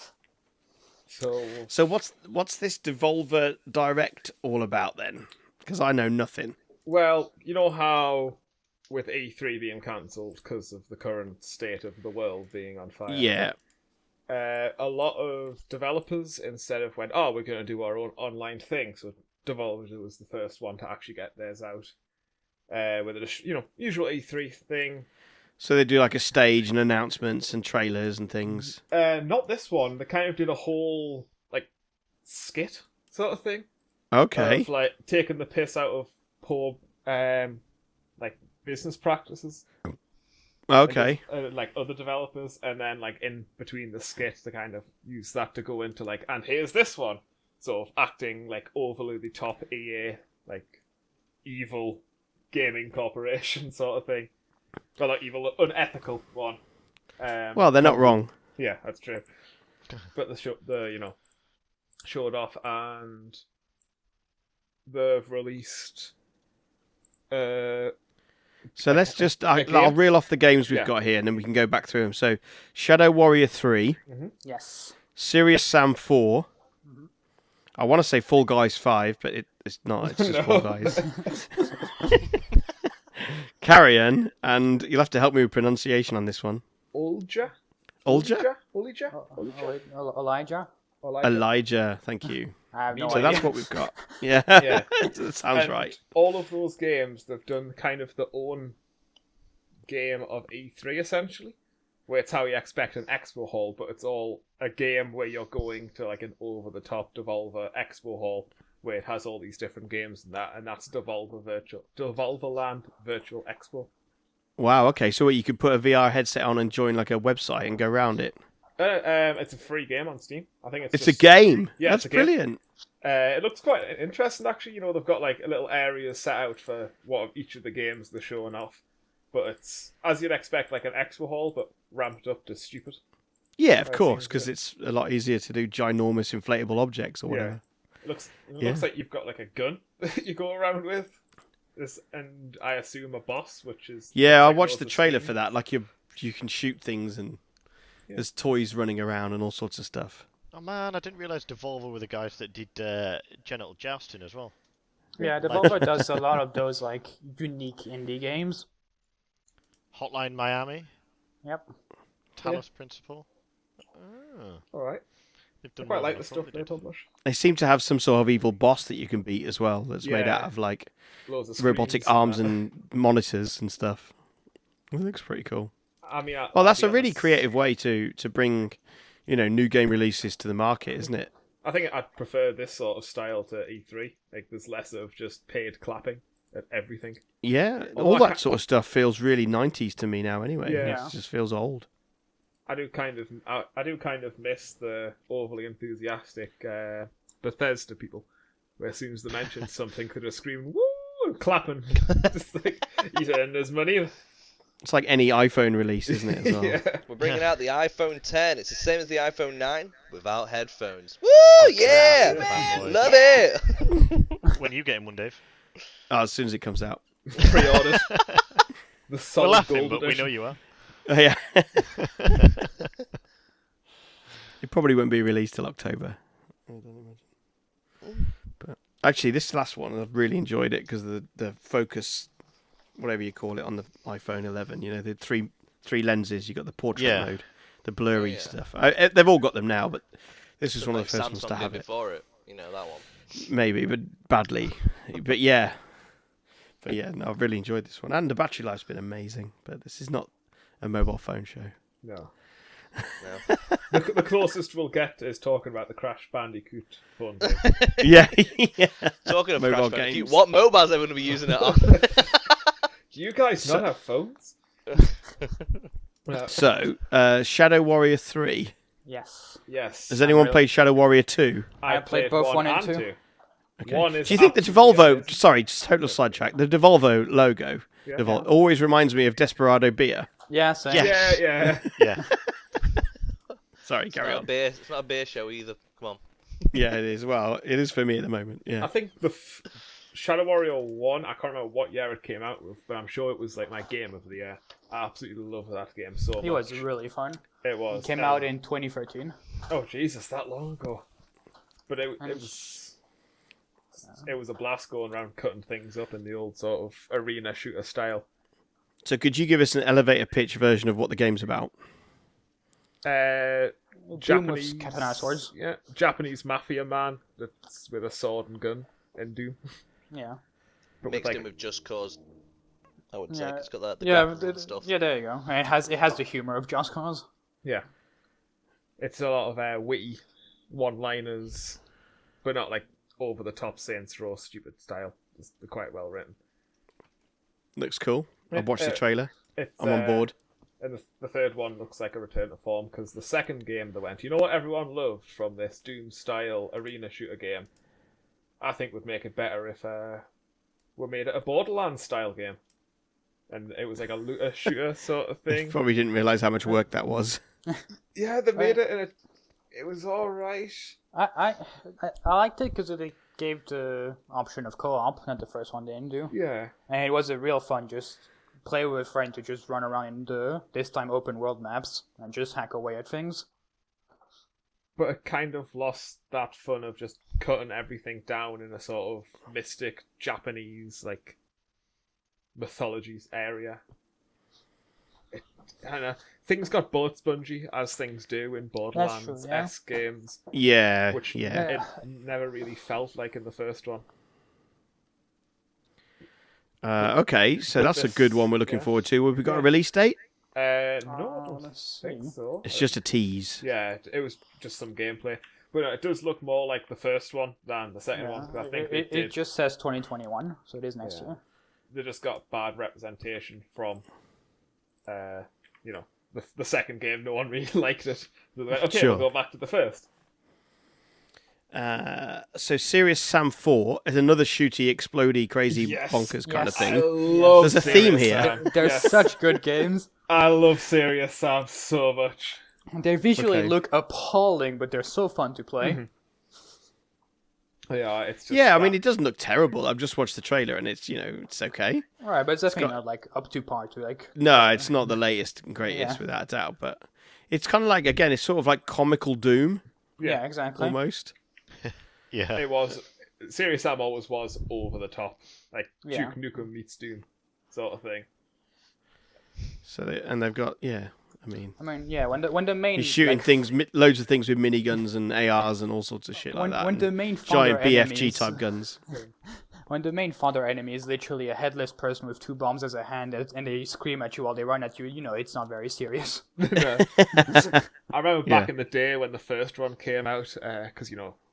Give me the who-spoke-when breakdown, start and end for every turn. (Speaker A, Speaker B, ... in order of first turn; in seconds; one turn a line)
Speaker A: 1.1-1.7
Speaker B: 1.7-6.5
Speaker A: 6.8-13.4
Speaker B: 13.1-13.6
Speaker A: 14.3-21.9
Speaker A: 22.7-25.1
Speaker B: 25.6-28.8
Speaker A: 28.5-31.7
Speaker A: 32.2-33.7
Speaker B: 34.1-34.7
Speaker A: 34.4-37.6
Speaker A: 38.2-39.6
Speaker B: 40.7-41.2
Speaker A: 40.8-50.8
Speaker A: 51.4-54.3
Speaker A: 55.0-56.6
Speaker A: 57.2-59.3
Speaker B: 57.6-58.3
Speaker A: 60.1-61.2
Speaker A: 62.0-63.4
Speaker A: 64.8-66.1
Speaker A: 67.3-67.9
Speaker A: 68.8-70.0
Speaker B: 68.8-74.0
Speaker A: 74.1-74.3
Speaker C: 74.4-74.9
Speaker B: 75.2-76.5
Speaker B: 77.8-81.7
Speaker A: 80.1-81.6
Speaker B: 83.6-86.6
Speaker A: 86.9-87.5
Speaker B: 88.1-88.5
Speaker A: 88.1-89.7
Speaker C: 89.1-90.7
Speaker A: 91.0-91.5
Speaker B: 91.2-96.0
Speaker C: 92.7-94.2
Speaker A: 92.9-93.6
Speaker A: 94.6-98.8
Speaker A: 99.9-113.9
Speaker B: 114.6-118.4
Speaker A: 118.8-122.3
Speaker B: 120.9-122.6
Speaker A: 123.0-133.0
Speaker B: 133.6-137.6
Speaker A: 133.8-134.5
Speaker A: 137.3-141.2
Speaker A: 141.8-145.4
Speaker B: 144.2-147.4
Speaker B: 148.2-150.2
Speaker D: 150.5-154.6
Speaker C: 155.2-158.7
Speaker D: 155.4-156.2
Speaker D: 159.9-160.9
Speaker D: 162.4-163.3
Speaker D: 163.9-164.7
Speaker A: 164.7-165.1
Speaker D: 165.6-166.8
Speaker A: 165.8-167.1
Speaker B: 167.2-170.9
Speaker A: 170.0-170.5
Speaker A: 171.3-172.6
Speaker B: 171.6-174.1
Speaker B: 174.9-175.7
Speaker A: 176.0-177.4
Speaker B: 176.5-181.3
Speaker A: 181.6-187.2
Speaker B: 187.4-191.9
Speaker A: 187.9-188.6
Speaker A: 190.6-191.1
Speaker C: 190.8-191.1
Speaker A: 192.7-198.3
Speaker A: 198.8-204.1
Speaker B: 204.8-206.8
Speaker A: 206.1-207.1
Speaker E: 207.1-214.3
Speaker D: 211.6-213.2
Speaker A: 212.2-213.1
Speaker D: 214.4-215.4
Speaker B: 216.1-217.0
Speaker A: 217.3-218.1
Speaker D: 218.1-218.7
Speaker A: 219.1-220.4
Speaker D: 219.4-221.1
Speaker B: 221.1-222.1
Speaker D: 222.1-222.3
Speaker B: 224.6-227.2
Speaker B: 228.6-232.3
Speaker B: 233.0-241.8
Speaker D: 236.9-237.3
Speaker E: 238.1-238.6
Speaker E: 240.8-243.4
Speaker B: 243.3-245.9
Speaker B: 246.8-251.7
Speaker A: 252.0-252.3
Speaker E: 253.2-253.6
Speaker A: 253.9-257.7
Speaker E: 257.6-258.1
Speaker B: 258.0-260.4
Speaker E: 259.3-262.6
Speaker A: 261.8-262.4
Speaker A: 263.1-264.6
Speaker A: 266.3-266.6
Speaker B: 266.5-268.7
Speaker C: 269.1-269.6
Speaker A: 269.7-270.4
Speaker B: 270.1-271.7
Speaker C: 270.2-270.6
Speaker A: 271.8-273.2
Speaker C: 271.9-273.1
Speaker B: 273.8-280.3
Speaker A: 273.8-275.4
Speaker C: 280.5-281.4
Speaker B: 280.9-282.1
Speaker A: 280.9-282.0
Speaker D: 281.9-282.3
Speaker B: 283.8-284.5
Speaker E: 284.1-286.2
Speaker B: 286.7-288.9
Speaker A: 288.8-296.8
Speaker C: 296.4-299.4
Speaker A: 297.6-298.5
Speaker A: 299.7-301.1
Speaker A: 301.9-303.0
Speaker C: 302.2-302.7
Speaker A: 304.2-308.3
Speaker B: 309.0-311.7
Speaker A: 313.0-319.6
Speaker C: 314.1-315.5
Speaker C: 320.1-320.4
Speaker A: 321.0-321.4
Speaker E: 321.1-322.2
Speaker E: 323.1-324.9
Speaker C: 323.3-327.3
Speaker A: 329.0-331.8
Speaker A: 332.4-336.4
Speaker B: 337.8-340.3
Speaker A: 338.5-347.7
Speaker A: 348.6-350.3
Speaker A: 351.0-352.6
Speaker A: 353.5-355.8
Speaker B: 355.5-357.4
Speaker A: 358.1-359.1
Speaker A: 359.7-361.0
Speaker C: 361.1-366.4
Speaker A: 366.3-366.7
Speaker C: 366.9-373.5
Speaker A: 375.0-381.4
Speaker A: 382.6-383.8
Speaker A: 385.3-390.4
Speaker C: 388.9-389.7
Speaker B: 390.5-391.7
Speaker A: 391.1-394.0
Speaker C: 391.5-392.0
Speaker B: 396.8-400.2
Speaker A: 397.7-398.9
Speaker A: 399.4-399.7
Speaker A: 400.6-402.9
Speaker C: 401.1-402.3
Speaker B: 402.6-403.6
Speaker A: 403.6-409.4
Speaker C: 408.1-411.4
Speaker A: 411.0-411.3
Speaker A: 411.9-414.0
Speaker A: 415.1-420.1
Speaker B: 418.9-419.3
Speaker B: 421.7-428.7
Speaker A: 425.7-429.6
Speaker C: 426.4-430.1
Speaker A: 430.3-432.6
Speaker C: 432.9-436.0
Speaker B: 433.4-433.8
Speaker A: 435.8-436.1
Speaker A: 437.9-439.0
Speaker B: 438.5-442.1
Speaker C: 442.2-444.9
Speaker B: 442.7-442.9
Speaker B: 444.4-449.8
Speaker C: 445.9-446.2
Speaker A: 450.2-450.5
Speaker C: 450.2-451.0
Speaker B: 450.8-451.3
Speaker D: 452.3-452.7
Speaker A: 452.6-458.3
Speaker C: 456.0-456.4
Speaker B: 459.9-461.8
Speaker C: 461.8-463.6
Speaker B: 462.9-469.0
Speaker C: 466.4-468.7
Speaker C: 469.9-476.6
Speaker A: 476.6-481.4
Speaker B: 477.2-477.7